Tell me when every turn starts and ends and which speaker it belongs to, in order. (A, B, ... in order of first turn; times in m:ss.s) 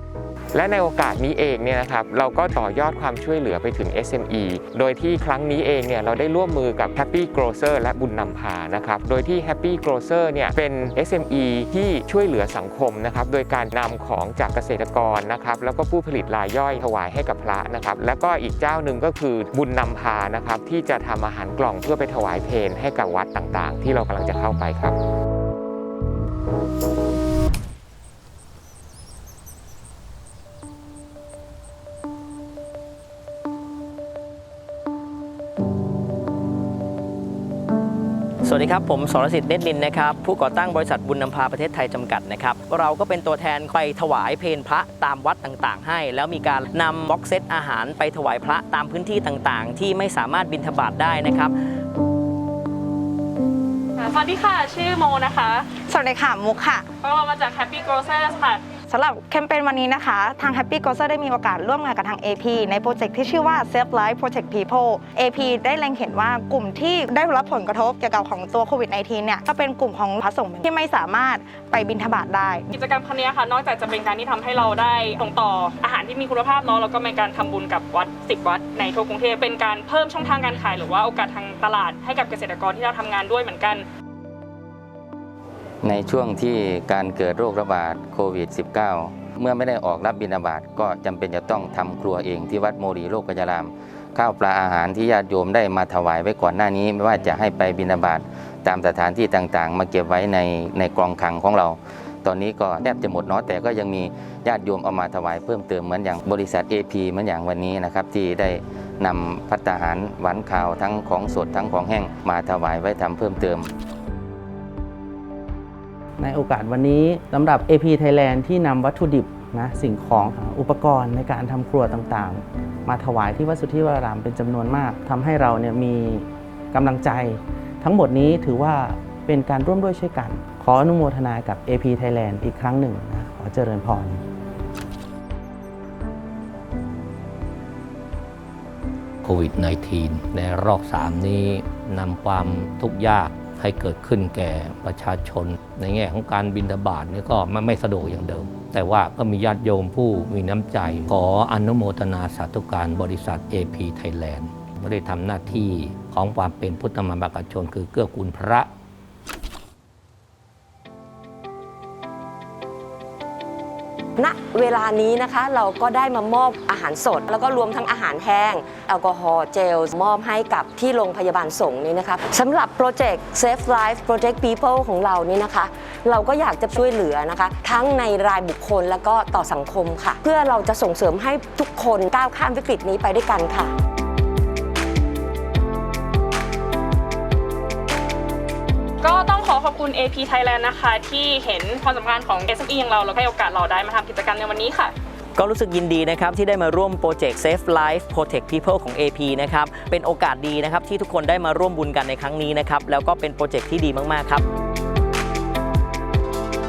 0:00.5-0:24.9 A
0:38.4-0:51.5 B
0:54.0-0:55.7 C
0:55.8-0:56.9 D
0:57.0-0:58.7 C
0:58.9-1:12.7 D
1:12.7-1:23.8 C
1:25.8-1:53.7 E
1:56.2-2:14.2 F
2:19.2-2:38.7 G
2:44.2-3:03.7 H
3:09.0-3:14.9 C
3:15.4-3:24.4 B